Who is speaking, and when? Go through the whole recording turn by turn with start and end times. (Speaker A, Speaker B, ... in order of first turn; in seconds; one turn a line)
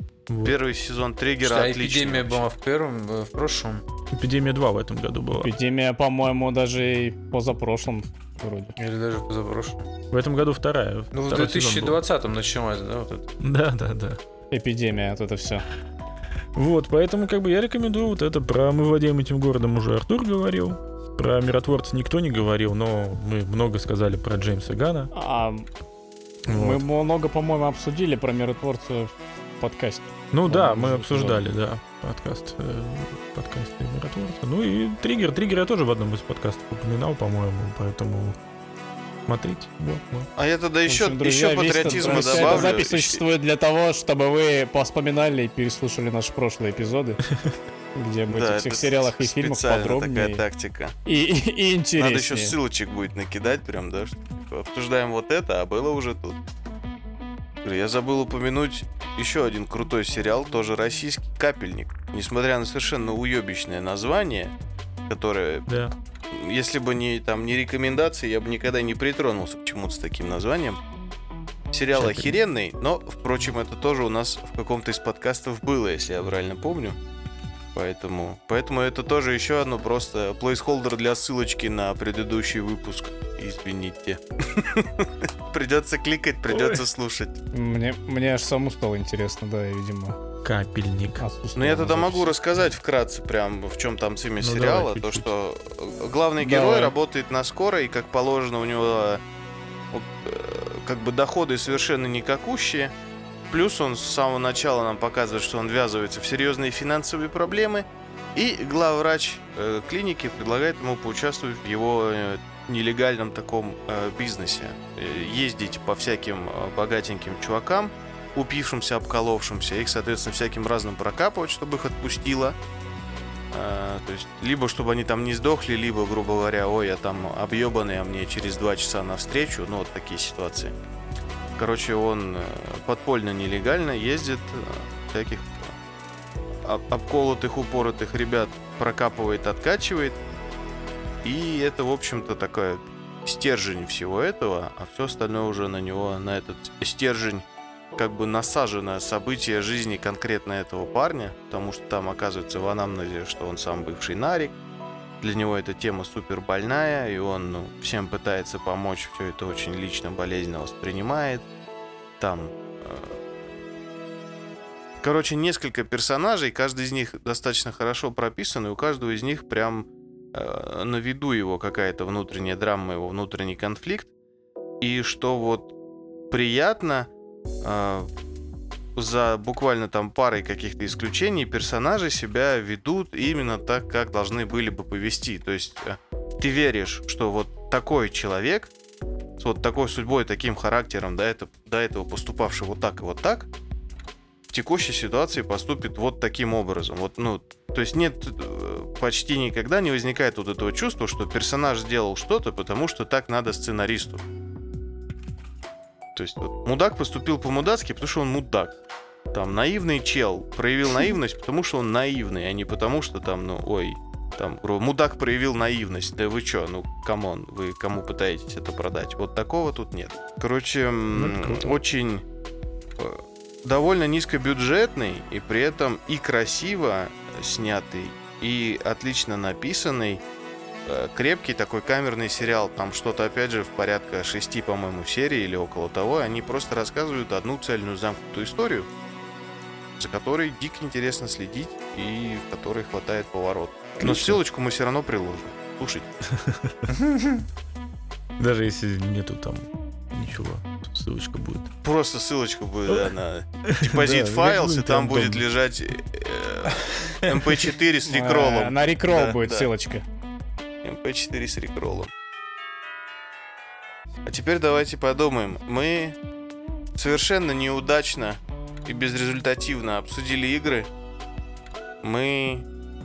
Speaker A: 0.3-0.6
Speaker B: 0.4-2.4
Speaker C: 1.4-3.8
Speaker A: 4.1-5.5
Speaker D: 5.4-8.8
Speaker C: 8.8-9.9
Speaker A: 10.1-12.0
Speaker C: 11.1-13.3
Speaker A: 13.4-14.2
Speaker D: 14.5-15.7
Speaker A: 16.6-25.1
Speaker D: 25.1-25.7
Speaker A: 26.5-26.9
Speaker D: 26.5-31.5
Speaker A: 30.3-38.4
Speaker A: 39.3-40.3
Speaker B: 40.4-43.2
Speaker D: 40.9-47.2
Speaker C: 41.9-42.7
Speaker A: 42.1-42.6
Speaker D: 48.0-50.4
Speaker B: 48.3-51.0
Speaker D: 51.1-52.6
Speaker B: 52.0-56.4
Speaker B: 57.6-64.5
Speaker B: 65.1-65.8
Speaker A: 65.7-65.9
Speaker B: 66.3-70.8
Speaker B: 71.7-77.0
Speaker A: 71.9-72.4
Speaker B: 77.7-87.4
Speaker A: 86.5-86.8
Speaker D: 87.5-90.2
Speaker A: 90.4-91.2
Speaker D: 91.2-92.3
Speaker B: 91.6-99.2
Speaker A: 94.4-95.3
Speaker D: 96.4-96.9
Speaker B: 99.9-102.9
Speaker B: 103.5-122.6
Speaker B: 123.5-130.8
Speaker B: 131.6-135.8
Speaker B: 136.6-140.2
Speaker B: 141.2-154.6
Speaker B: 155.2-161.5
Speaker B: 162.2-163.2
Speaker B: 165.0-174.1
Speaker B: 174.8-175.7
Speaker B: 176.3-177.1
Speaker B: 177.6-178.1
Speaker B: 178.9-188.7
Speaker B: 189.4-193.5
Speaker B: 194.5-204.2
Speaker B: 206.2-208.8
Speaker B: 209.3-222.2
Speaker A: 221.1-221.8
Speaker B: 223.0-230.2
Speaker B: 230.9-238.9
Speaker B: 240.0-246.1
Speaker A: 244.0-244.4
Speaker A: 246.4-246.8
Speaker C: 246.9-247.4
Speaker A: 248.4-251.7
Speaker B: 251.8-259.7
Speaker A: 252.9-253.1
Speaker A: 253.7-255.4
Speaker D: 258.1-260.0
Speaker B: 260.8-262.1
Speaker B: 264.3-266.2
Speaker B: 266.9-270.9
Speaker B: 272.0-272.7